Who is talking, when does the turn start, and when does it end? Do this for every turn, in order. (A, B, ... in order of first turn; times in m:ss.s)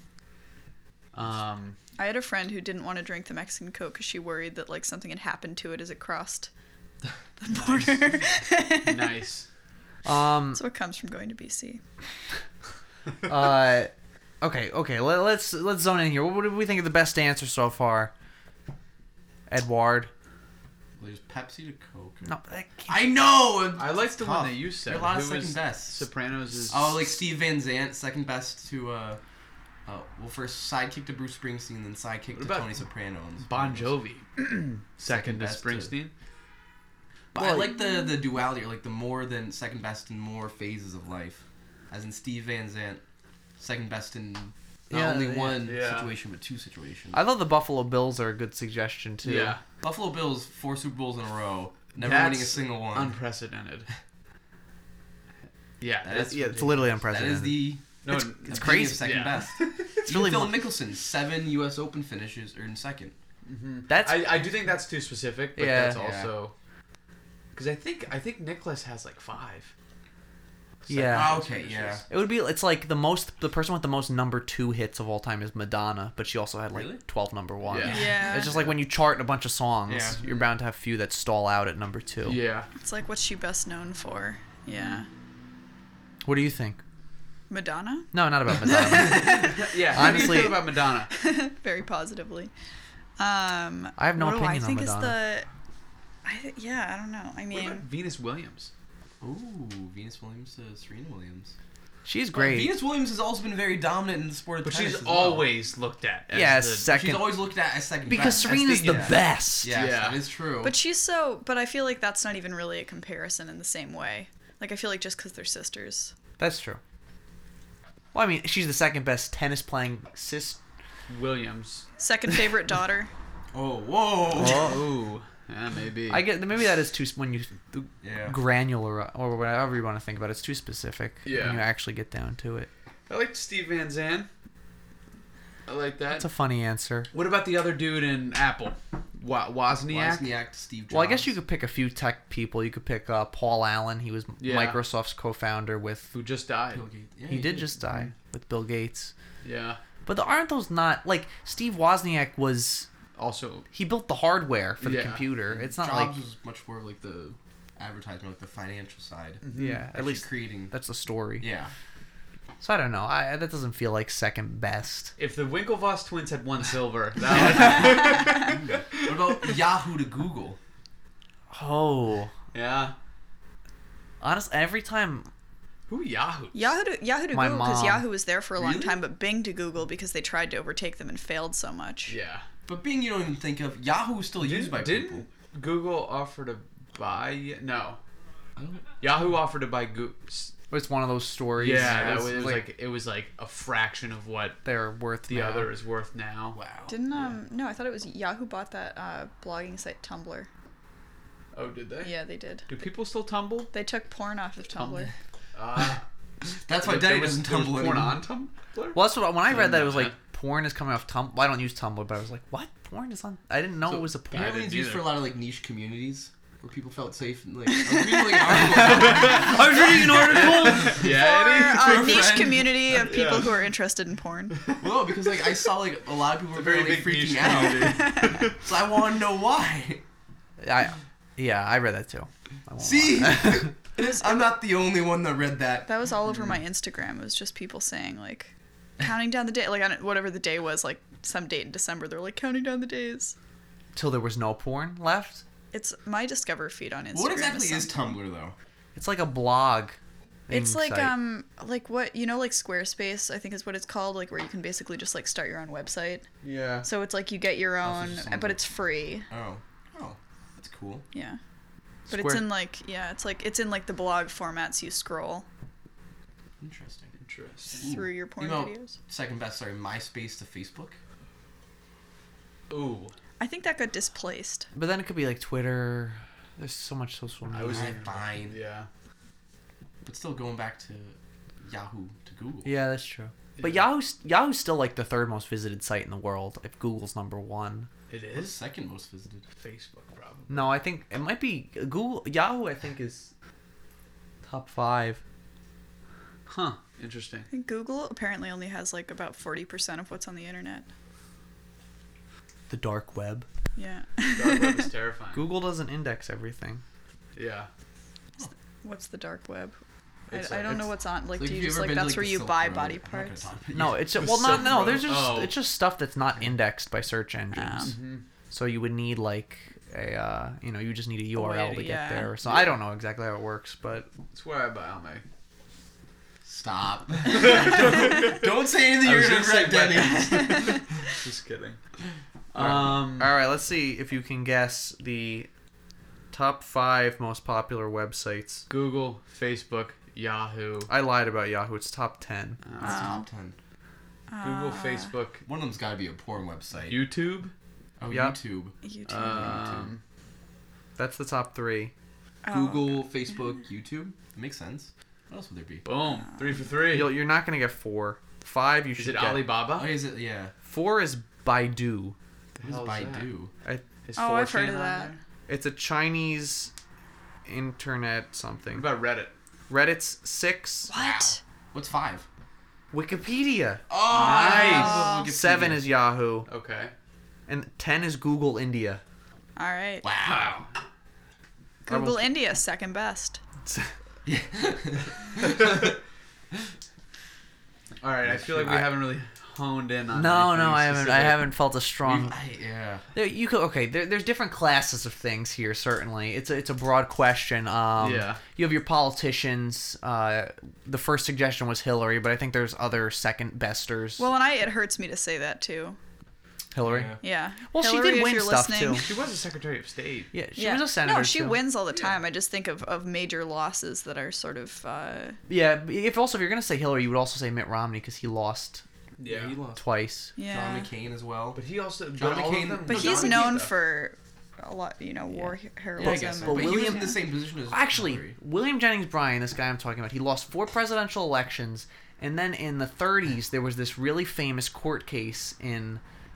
0:01.1-0:01.8 A
0:02.0-0:06.5 B
0:07.4-0:09.2 B
0:08.8-0:09.5 A
0:10.0-0:10.6 C
0:10.5-0:11.8 B
0:13.2-0:18.1 C
0:19.5-0:20.1 C
0:21.0-0:22.3 D
0:22.2-0:23.2 C
0:22.9-0:26.0 D
0:23.8-0:27.1 A
0:26.7-0:29.2 D
0:29.8-0:33.9 D
0:32.3-0:32.8 A
0:33.4-0:36.1 A
0:35.0-0:35.9 D
0:37.3-0:43.0 D
0:37.3-0:37.7 C
0:43.6-0:47.2 D
0:44.9-0:45.7 C
0:45.6-0:46.1 A
0:47.1-0:49.6 C
0:49.2-0:49.6 A
0:49.8-0:53.2 D
0:52.0-0:53.9 A
0:55.8-0:56.8 A
0:56.0-0:57.8 D
0:56.3-0:59.2 C
0:58.0-1:00.0 A
0:58.4-1:03.1 D
1:00.0-1:00.7 C
1:03.4-1:06.5 A
1:03.9-1:04.5 C
1:05.6-1:06.0 C
1:05.9-1:06.3 D
1:07.5-1:09.7 A
1:10.8-1:12.0 A
1:10.9-1:11.3 C
1:11.1-1:12.0 D
1:12.1-1:22.4 C
1:16.7-1:17.0 D
1:17.6-1:18.1 A
1:17.8-1:18.6 D
1:17.8-1:18.6 B
1:19.9-1:20.4 D
1:22.2-1:22.7 A
1:22.8-1:25.1 B
1:24.7-1:25.0 C
1:26.2-1:26.8 C
1:27.5-1:28.1 B
1:28.1-1:30.6 C
1:28.6-1:29.5 B
1:29.3-1:31.1 A
1:31.1-1:32.5 B
1:33.2-1:35.5 B
1:34.0-1:35.2 C
1:36.2-1:37.8 B
1:37.5-1:38.7 A
1:39.2-1:41.5 D
1:42.0-1:42.7 C
1:42.3-1:45.5 D
1:44.6-1:46.9 A
1:46.3-1:47.4 C
1:46.9-1:50.8 D
1:48.1-1:49.7 C
1:48.2-1:49.1 A
1:49.7-1:50.2 A
1:50.6-1:56.1 B
1:56.4-1:56.8 C
1:58.1-2:00.6 C
2:01.1-2:01.8 A
2:02.0-2:03.1 B
2:03.5-2:04.8 D
2:04.3-2:04.8 C
2:04.4-2:06.2 A
2:06.1-2:12.7 C
2:08.0-2:08.4 D
2:11.2-2:11.6 A
2:13.1-2:14.3 A
2:15.7-2:16.3 A
2:16.1-2:17.1 C
2:17.1-2:20.3 A
2:19.9-2:21.3 D
2:20.9-2:26.1 C
2:24.4-2:24.8 A
2:26.1-2:26.8 A
2:26.7-2:27.8 D
2:27.3-2:29.1 C
2:29.4-2:29.8 A
2:30.0-2:32.9 C
2:33.2-2:33.7 A
2:33.7-2:36.1 C
2:34.8-2:35.2 A
2:35.5-2:40.7 D
2:39.4-2:39.8 A
2:39.5-2:41.5 C
2:41.4-2:41.7 D
2:42.6-2:45.1 C
2:45.2-2:49.3 A
2:48.2-2:50.6 D
2:51.5-2:52.3 C
2:52.5-2:52.9 A
2:54.2-2:55.3 C
2:55.9-2:56.7 A
2:56.5-3:02.1 B
2:57.3-2:58.0 C
2:58.6-2:59.0 D
3:02.1-3:02.4 A
3:02.6-3:05.2 D
3:04.4-3:08.0 A
3:08.6-3:08.9 D
3:09.0-3:10.5 A
3:10.7-3:12.6 C
3:11.6-3:14.6 A
3:14.6-3:15.7 C
3:15.3-3:16.6 A
3:16.5-3:17.3 D
3:16.9-3:20.5 B
3:21.5-3:22.1 A
3:22.0-3:22.7 B
3:22.7-3:23.7 A
3:23.7-3:25.1 B
3:24.7-3:26.0 A
3:26.6-3:28.2 D
3:26.8-3:30.1 A
3:28.9-3:34.6 C
3:33.8-3:43.0 D
3:34.3-3:35.1 A
3:37.8-3:39.4 B
3:38.6-3:43.6 A
3:39.8-3:40.8 C
3:40.9-3:44.7 B
3:44.8-3:50.0 D
3:46.5-3:48.6 A
3:47.5-3:48.4 B
3:50.6-3:53.7 C
3:52.8-3:55.9 D
3:54.0-3:54.4 B
3:55.8-4:03.3 B
4:03.9-4:05.4 C
4:05.7-4:08.1 B
4:07.1-4:08.5 D
4:08.9-4:10.0 C
4:10.5-4:11.2 C
4:10.5-4:16.3 B
4:16.4-4:16.9 A
4:16.8-4:19.3 B
4:17.8-4:18.6 D
4:19.3-4:21.0 D
4:21.1-4:21.4 B
4:22.1-4:25.4 B
4:22.1-4:22.4 C
4:26.6-4:27.1 D
4:27.2-4:27.9 A
4:27.8-4:29.0 B
4:27.8-4:31.0 D
4:32.7-4:33.1 A
4:33.4-4:34.7 B
4:34.7-4:38.0 C
4:37.5-4:38.9 A
4:37.7-4:38.6 D
4:40.0-4:42.7 D
4:42.6-4:47.9 C
4:43.6-4:43.8 A
4:48.1-4:48.6 A
4:48.3-4:49.4 D
4:49.6-4:50.7 A
4:50.5-4:53.3 C
4:54.4-4:55.2 C
4:56.5-4:57.5 A
4:57.5-5:00.9 B
5:02.7-5:03.5 C
5:03.8-5:04.9 B
5:04.3-5:05.5 A
5:05.3-5:06.8 C
5:07.3-5:07.7 A
5:08.8-5:09.8 B
5:10.3-5:10.9 A
5:10.3-5:13.5 B
5:11.4-5:14.2 D
5:13.7-5:17.9 C
5:14.1-5:15.6 A
5:17.5-5:18.0 B
5:17.8-5:18.2 A
5:18.5-5:24.1 C
5:21.3-5:22.3 B
5:24.3-5:25.2 A
5:26.4-5:30.9 D
5:27.2-5:31.8 A
5:30.1-5:30.8 B
5:32.5-5:33.3 A
5:32.5-5:35.5 C
5:36.3-5:38.6 C
5:38.7-5:40.9 A
5:40.9-5:42.6 C
5:42.6-5:43.1 A
5:42.8-5:43.6 D
5:42.8-5:43.3 B
5:44.3-5:45.1 B
5:44.4-5:45.4 A
5:45.4-5:47.0 D
5:46.9-5:47.5 A
5:48.0-5:49.9 D
5:48.1-5:48.3 C
5:48.8-5:49.6 B
5:49.0-5:50.0 A
5:51.0-5:51.9 C
5:52.4-5:53.1 B
5:52.4-5:55.8 D
5:55.8-5:57.2 A
5:56.9-5:59.5 C
5:59.0-6:00.0 A
5:59.7-6:00.5 D
6:00.6-6:02.1 C
6:02.6-6:03.3 A
6:02.6-6:03.5 D
6:04.0-6:05.2 A
6:04.2-6:05.1 B
6:05.5-6:06.7 C
6:07.4-6:08.9 C
6:08.8-6:09.3 A
6:09.7-6:10.9 C
6:10.9-6:11.4 B
6:10.9-6:12.2 D
6:12.9-6:13.8 C
6:13.9-6:15.9 D
6:14.1-6:15.2 A
6:14.1-6:15.2 B
6:14.5-6:16.5 C
6:16.4-6:16.9 A
6:17.5-6:19.0 C
6:19.6-6:20.1 B
6:20.0-6:20.6 D
6:20.2-6:20.7 A
6:21.8-6:23.4 B
6:21.9-6:22.3 C
6:23.6-6:23.9 A
6:24.2-6:25.9 D
6:25.4-6:25.9 A
6:28.0-6:31.4 A
6:28.3-6:28.9 C
6:30.1-6:32.3 C
6:32.0-6:33.1 D
6:33.1-6:44.3 C
6:38.0-6:38.4 A
6:44.2-6:46.0 B
6:46.7-6:49.1 C
6:46.8-6:47.2 D
6:47.2-6:49.2 B
6:49.0-6:50.3 A
6:50.3-6:51.6 C
6:50.6-6:55.4 B
6:55.5-6:58.8 C
6:59.2-6:59.6 A
6:59.2-6:59.8 D
6:59.8-7:00.3 C
7:00.4-7:00.9 B
7:00.4-7:01.6 D
7:01.5-7:03.7 A
7:02.1-7:03.5 D
7:02.8-7:07.2 B
7:05.3-7:16.0 C
7:06.0-7:08.4 D